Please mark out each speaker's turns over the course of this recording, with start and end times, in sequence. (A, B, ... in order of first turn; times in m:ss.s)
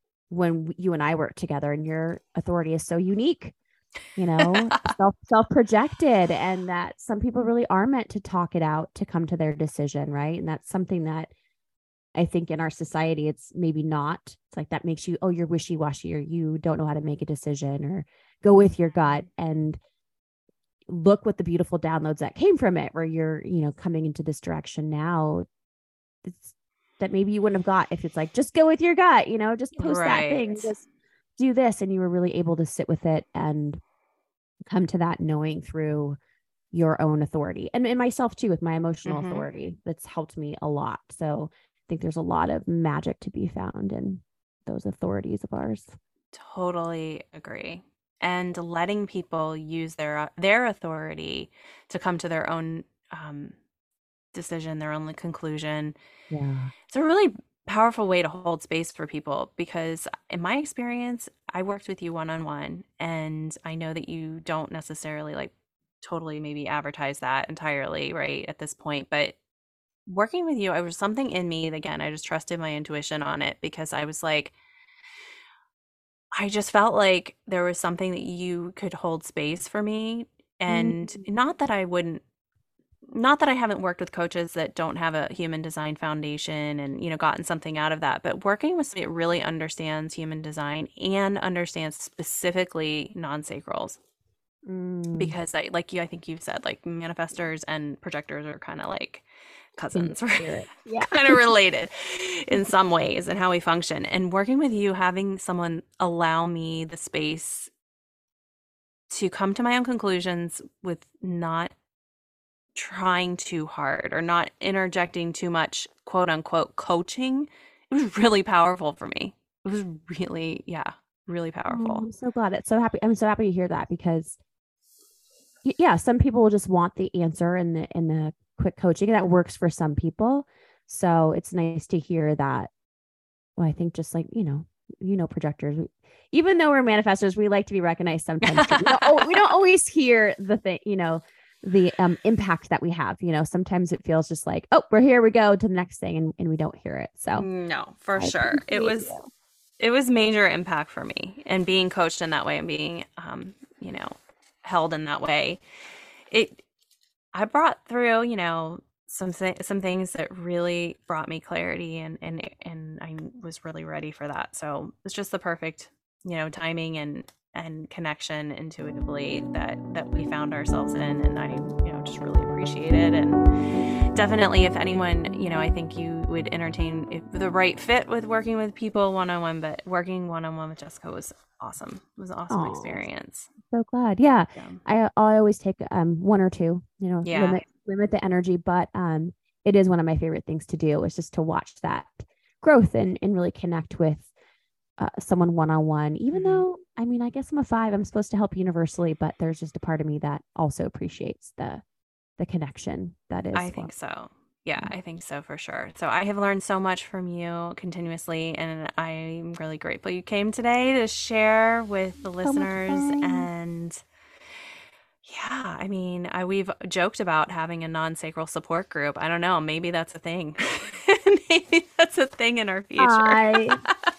0:00.3-0:03.6 A
0:04.2-0:11.3 A
0:04.4-0:04.9 B
0:12.2-0:19.8 A
0:20.9-0:25.5 A
0:26.2-0:30.8 A
0:29.8-0:30.7 B
0:31.4-0:33.8 A
0:34.7-0:36.2 A
0:36.7-0:46.0 A
0:39.1-0:39.5 B
0:46.3-0:53.6 B
0:54.3-0:56.0 B
0:56.3-0:56.7 A
0:56.9-1:09.4 B
1:10.1-1:14.6 B
1:16.4-1:22.2 B
1:20.7-1:21.2 A
1:23.1-1:34.0 B
1:34.6-1:35.4 A
1:35.2-1:39.3 B
1:39.8-1:47.7 B
1:40.0-1:41.4 A
1:49.1-1:51.8 B
1:52.8-2:02.0 B
2:01.7-2:04.4 A
2:05.6-2:12.7 A
2:13.6-2:27.5 A
2:18.4-2:19.4 B
2:27.4-2:29.2 B
2:28.2-2:29.3 A
2:29.8-2:35.6 B
2:36.3-2:36.6 B
2:37.3-2:53.4 B
2:54.1-3:03.5 B
3:02.5-3:03.0 A
3:03.7-3:14.3 A
3:04.6-3:04.8 B
3:07.2-3:07.6 B
3:15.0-3:21.8 A
3:16.3-3:16.6 B
3:22.4-3:23.9 A
3:23.5-3:34.0 B
3:32.4-3:33.5 A
3:35.2-3:43.8 B
3:43.0-3:43.8 A